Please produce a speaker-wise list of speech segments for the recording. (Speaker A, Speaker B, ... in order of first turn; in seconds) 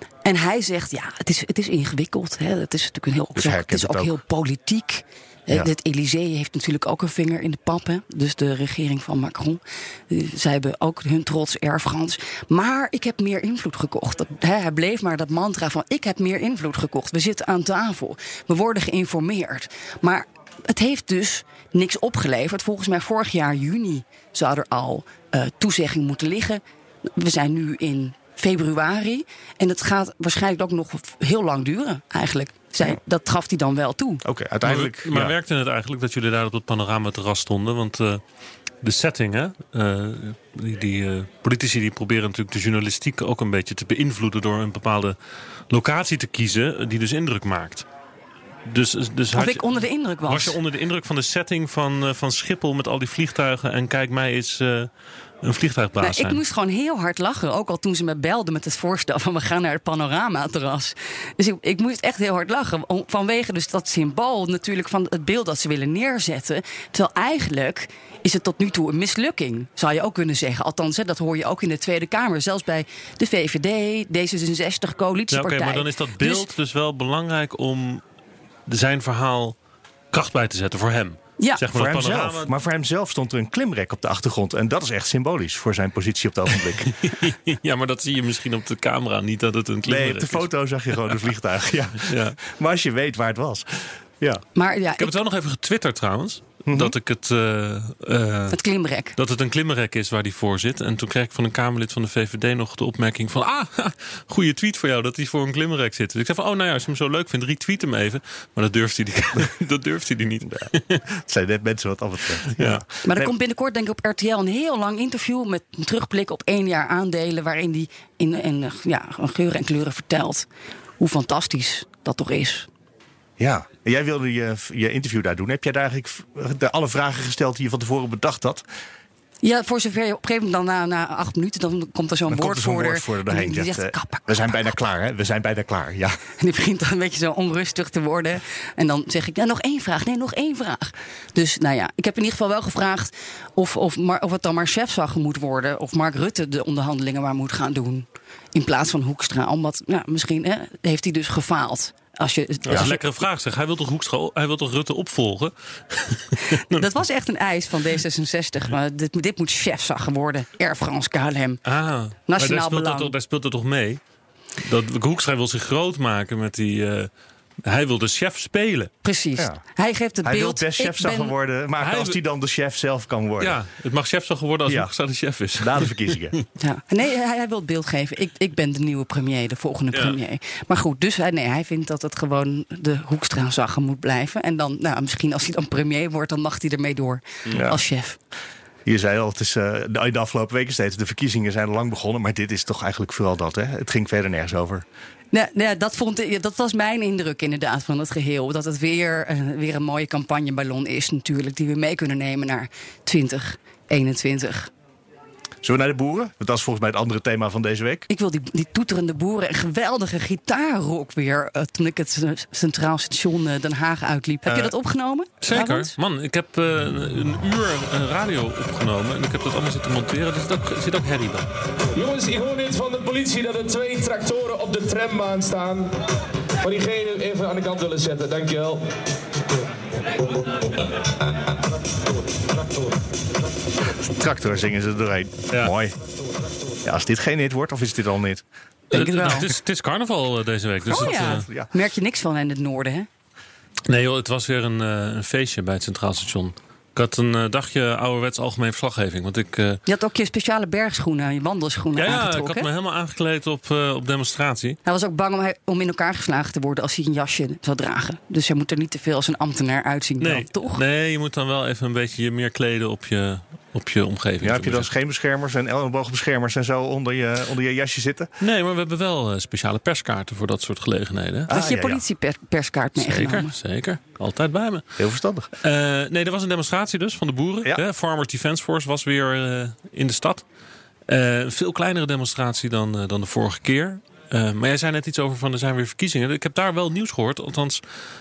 Speaker A: 0.2-26.6, 27.1-34.2, 49.3-50.5, 56.0-76.5, 94.5-95.1, 98.5-99.1, 113.0-120.5, 121.0-122.7, 129.4-134.6, 136.4-153.0, 156.5-161.6, 162.3-163.1, 169.0-171.3, 176.6-188.2, 195.3-204.7, 208.1-215.9, 238.9-239.5, 240.9-243.1, 249.9-252.7, 254.8-260.8, 271.5-273.5
Speaker B: 3.3-4.2, 34.2-35.3, 81.7-86.9, 89.8-94.4, 96.7-97.0, 111.1-113.3, 123.4-128.6, 132.3-136.2, 170.2-173.6, 174.7-174.9, 175.6-176.4, 187.5-187.8, 188.8-194.8, 205.6-208.1, 214.4-214.7, 234.0-235.9, 236.8-238.4, 240.9-241.7, 264.4-268.3, 271.5-272.0, 275.0-275.5
Speaker C: 34.6-38.2, 38.8-45.1, 45.7-47.9, 48.7-54.9, 55.4-56.4, 75.3-78.0, 78.7-79.5, 80.1-82.5, 86.8-90.5, 92.0-92.4, 95.0-98.6, 99.2-111.0, 112.5-112.8, 152.7-156.8, 161.7-164.0, 164.6-167.1, 167.6-168.9, 171.8-172.2, 173.4-176.0, 179.9-180.2, 215.4-221.5, 238.9-241.4, 243.9-249.8, 251.9-254.8, 260.2-264.9, 268.4-271.6, 273.0-275.0, 275.6-280.4, 281.1-287.8
Speaker D: 221.9-225.9, 226.6-228.8